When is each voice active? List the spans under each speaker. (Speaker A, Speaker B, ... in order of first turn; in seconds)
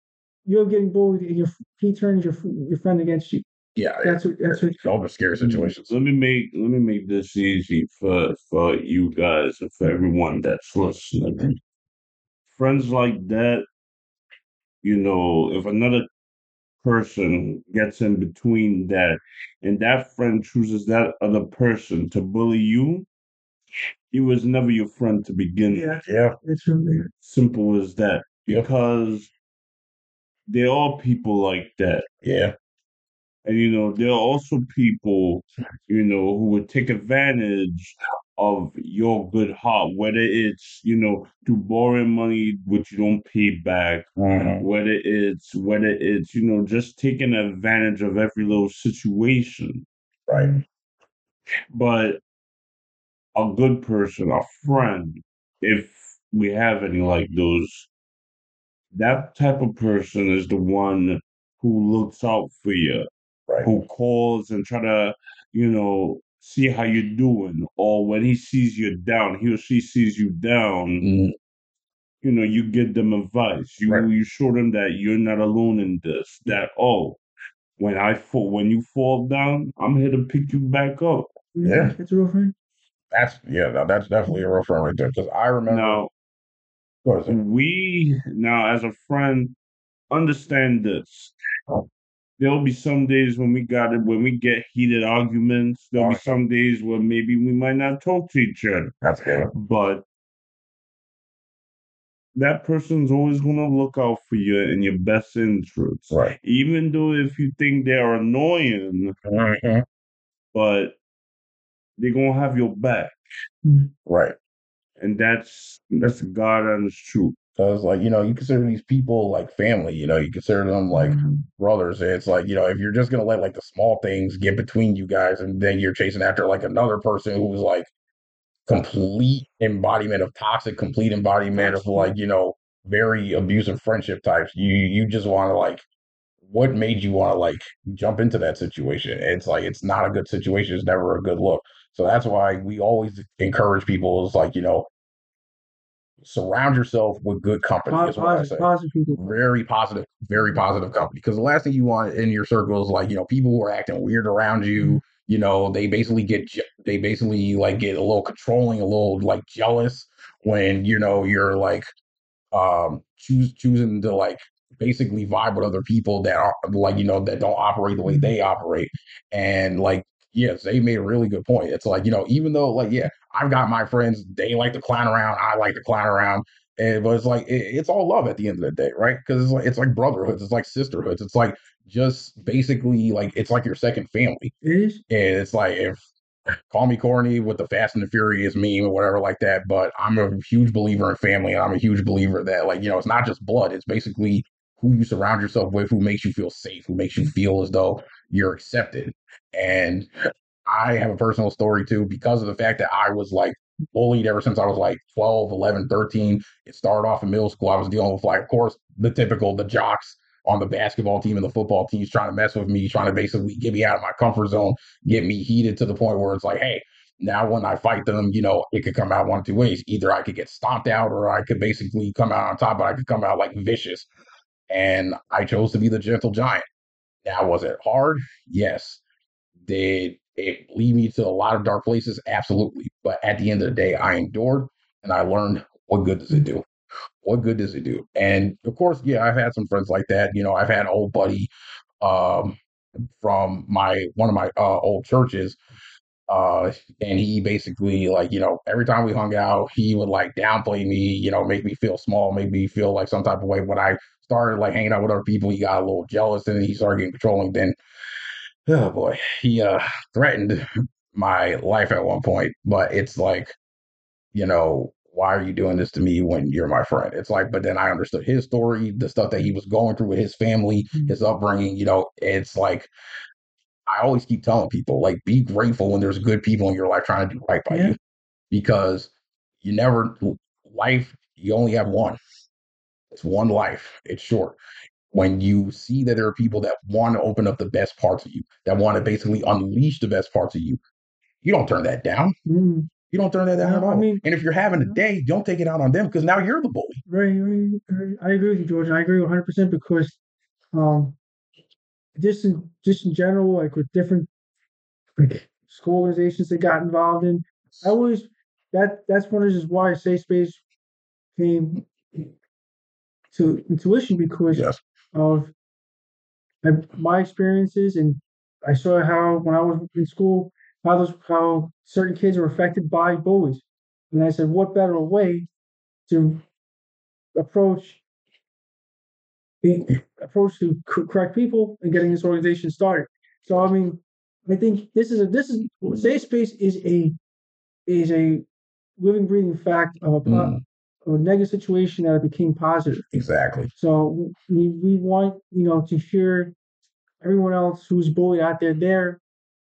Speaker A: 0.4-3.5, 4.0-4.8, 25.7-27.1, 81.5-82.5, 113.6-113.9, 120.9-121.5, 131.5-132.1, 147.9-149.2, 168.1-168.3, 184.6-185.0, 277.7-277.9, 292.4-292.9, 293.6-294.2, 297.1-300.2, 300.7-301.2, 302.1-304.3, 305.2-310.6, 311.4-312.3, 313.3-315.5, 316.6-325.5, 326.1-326.4, 327.4-328.0, 329.6-337.1, 337.9-338.4, 339.0-340.5, 341.1-343.0, 343.8-346.5, 347.2-349.2
Speaker B: 3.8-5.9, 26.1-26.4, 32.2-32.5, 44.2-44.6, 50.3-50.5, 71.0-71.3, 81.6-81.9, 83.1-86.0, 87.0-87.4, 96.0-96.3, 99.0-99.5, 109.2-109.8, 114.1-114.3, 117.6-127.9, 128.7-135.8, 136.5-144.9, 146.2-161.9, 162.5-184.5, 185.1-186.0, 186.7-200.1, 200.7-224.1, 224.7-226.6, 227.2-229.0, 229.7-236.7, 237.2-241.5, 242.0-242.6, 243.2-245.6, 246.3-257.8, 258.7-263.5, 264.3-272.9, 273.9-277.9, 278.5-279.1, 279.6-282.2, 283.1-284.6, 285.1-290.8, 291.4-292.4, 293.1-297.0, 314.5-314.8, 340.3-340.6, 343.1-343.7
Speaker C: 5.4-11.5, 12.5-13.7, 14.8-16.1, 16.8-23.1, 24.1-26.0, 27.2-29.3, 30.5-32.1, 33.4-44.1, 44.6-49.9, 51.7-52.2, 53.4-57.9, 58.9-63.0, 63.6-71.1, 72.2-77.2, 77.8-81.3, 85.7-86.1, 87.3-89.5, 90.1-91.3, 92.4-99.0, 99.5-100.0, 102.3-109.2, 110.5-111.0, 112.0-113.1, 115.0-117.4